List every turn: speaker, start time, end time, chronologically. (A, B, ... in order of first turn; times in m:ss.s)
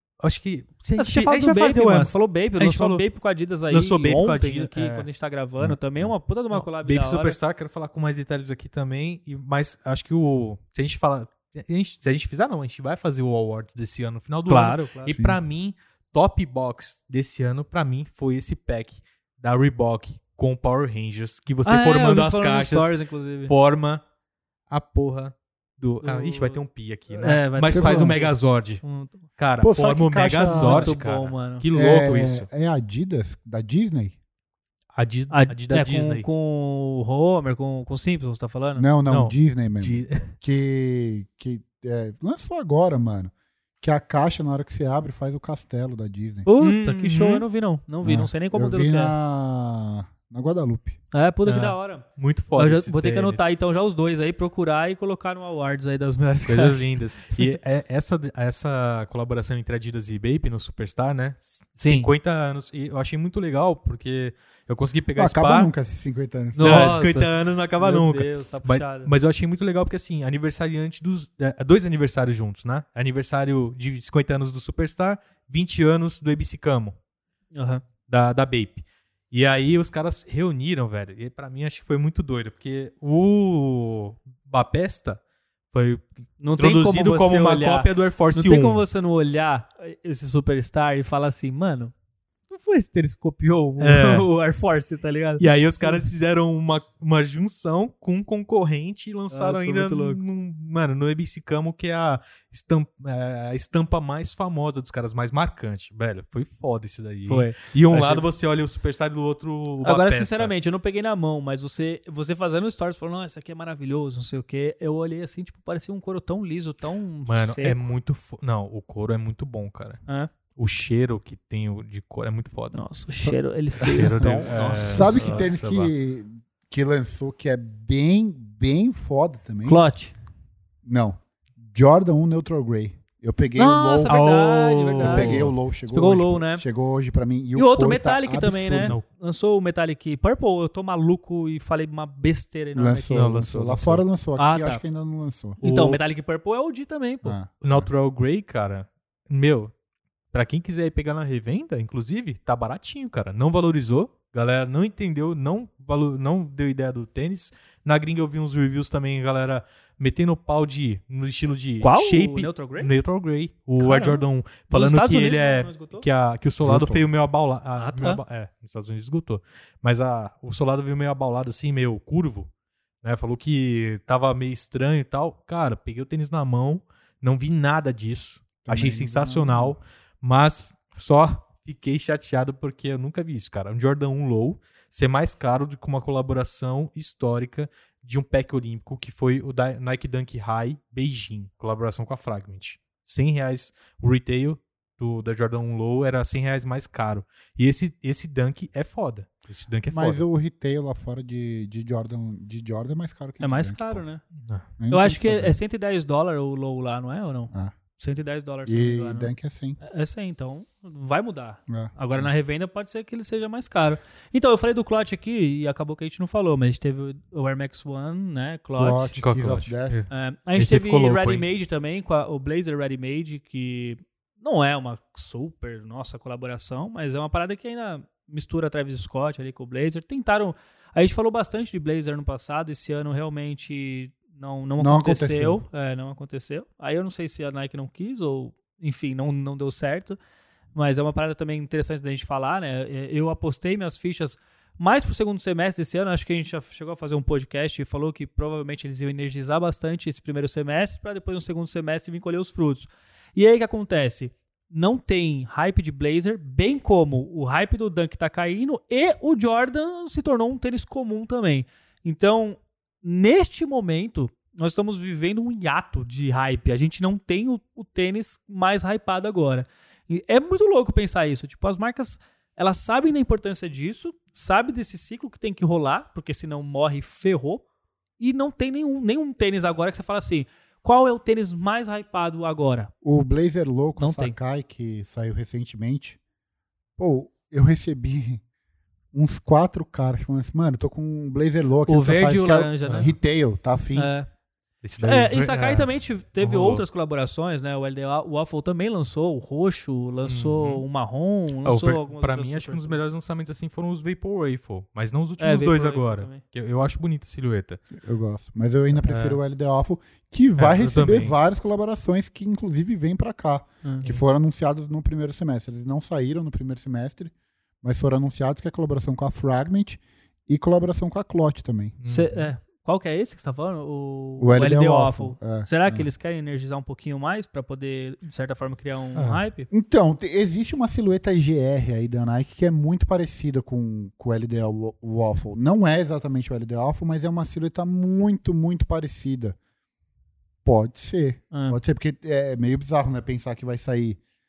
0:00.2-0:03.1 A
0:01.0-0:07.4 B
0:03.7-0:05.1 A
0:05.6-0:06.1 C
0:06.5-0:23.0 A
0:14.5-0:15.2 B
0:15.1-0:15.4 C
0:21.7-0:23.5 B
0:23.5-0:24.0 A
0:24.7-0:28.8 A
0:26.0-0:26.6 B
0:27.1-0:29.2 B
0:27.7-0:28.2 C
0:29.4-0:32.5 A
0:29.6-0:30.9 C
0:30.5-0:31.6 B
0:31.7-0:34.2 C
0:35.0-0:36.2 A
0:35.3-0:38.9 B
0:38.8-0:46.5 C
0:39.1-0:40.3 A
0:46.5-0:49.2 B
0:46.6-0:47.4 A
0:48.0-0:51.0 C
0:51.1-0:52.0 B
0:51.5-0:53.5 A
0:52.6-0:56.8 B
0:56.5-1:05.7 A
1:01.8-1:02.1 B
1:05.2-1:06.9 C
1:06.6-1:09.1 B
1:06.6-1:17.0 A
1:17.5-1:17.8 B
1:18.1-1:25.2 A
1:25.7-1:28.8 A
1:26.4-1:31.9 B
1:32.5-1:36.1 B
1:33.8-1:34.3 A
1:35.4-1:50.5 A
1:39.3-1:40.2 B
1:47.3-1:48.3 B
1:49.8-1:57.8 B
1:57.3-2:00.0 A
2:00.6-2:02.8 A
2:02.7-2:05.5 B
2:03.2-2:04.1 C
2:03.8-2:05.9 A
2:04.8-2:09.8 C
2:09.6-2:10.1 B
2:10.8-2:14.2 C
2:13.6-2:16.6 B
2:14.1-2:15.5 A
2:15.0-2:19.0 C
2:17.6-2:23.1 B
2:22.8-2:26.0 C
2:23.0-2:24.0 A
2:24.4-2:24.8 B
2:25.6-2:27.4 B
2:27.2-2:27.9 C
2:27.6-2:29.7 A
2:30.3-2:52.5 A
2:41.8-2:42.9 B
2:43.8-2:46.0 B
2:46.6-2:47.0 C
2:47.8-2:48.2 B
2:53.0-3:20.2 A
2:58.6-2:59.8 C
3:19.9-3:24.0 C
3:23.4-3:24.2 B
3:24.4-3:24.7 A
3:24.8-3:25.6 C
3:24.9-3:39.2 B
3:28.7-3:29.8 C
3:31.7-3:32.2 C
3:38.8-3:40.0 C
3:39.2-3:41.4 A
3:40.1-4:00.2 B
3:54.8-3:55.6 C
4:00.8-4:37.6 B
4:38.2-4:42.9 B
4:43.0-4:46.2 C
4:44.0-4:44.4 B
4:47.0-4:48.4 C
4:49.1-4:54.1 C
4:51.9-4:53.1 B
4:54.0-4:54.3 B
4:54.8-4:55.9 A
4:55.0-5:03.0 B
4:56.4-4:56.8 A
5:00.2-5:00.8 A
5:01.6-5:07.8 A
5:05.4-5:06.4 B
5:08.0-5:22.0 C
5:09.0-5:09.4 A
5:10.6-5:11.3 A
5:13.8-5:14.2 B
5:22.0-5:22.5 A
5:22.0-5:29.7 B
5:24.4-5:26.1 C
5:29.2-5:29.4 A
5:29.7-5:39.6 C
5:40.6-5:44.2 C
5:41.5-5:41.8 B